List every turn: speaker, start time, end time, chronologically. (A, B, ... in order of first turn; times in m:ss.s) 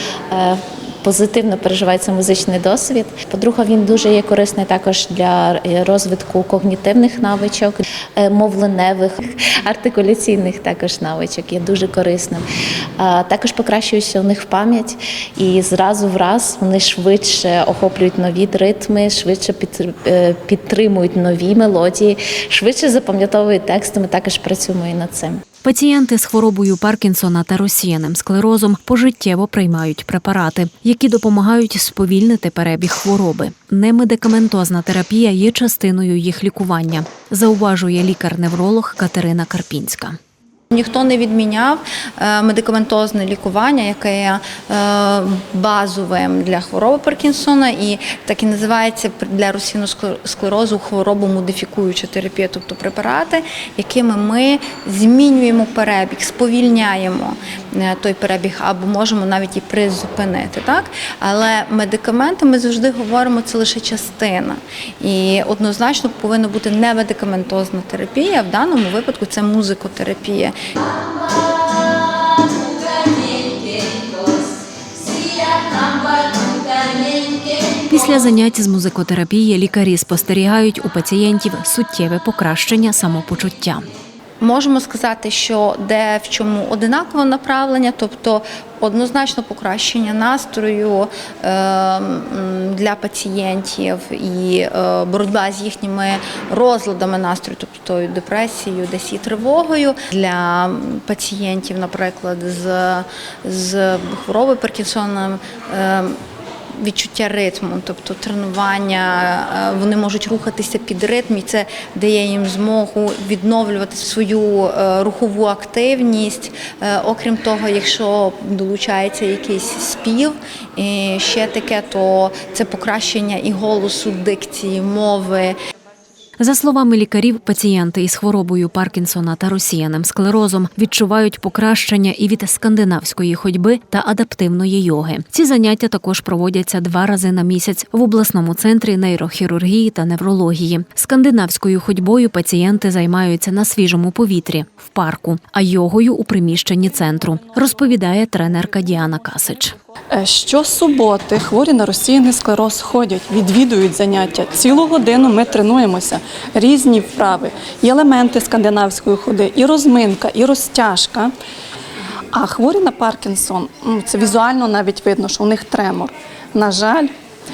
0:00.3-0:12.4 A
0:13.0-0:25.4 A
0:25.6-0:40.2 B
0:40.7-1:10.5 C
1:17.8-1:23.8 B
1:24.4-1:46.2 C
1:46.8-2:05.6 C
2:06.4-2:29.7 B
2:30.1-2:41.3 D
2:42.3-2:47.1 D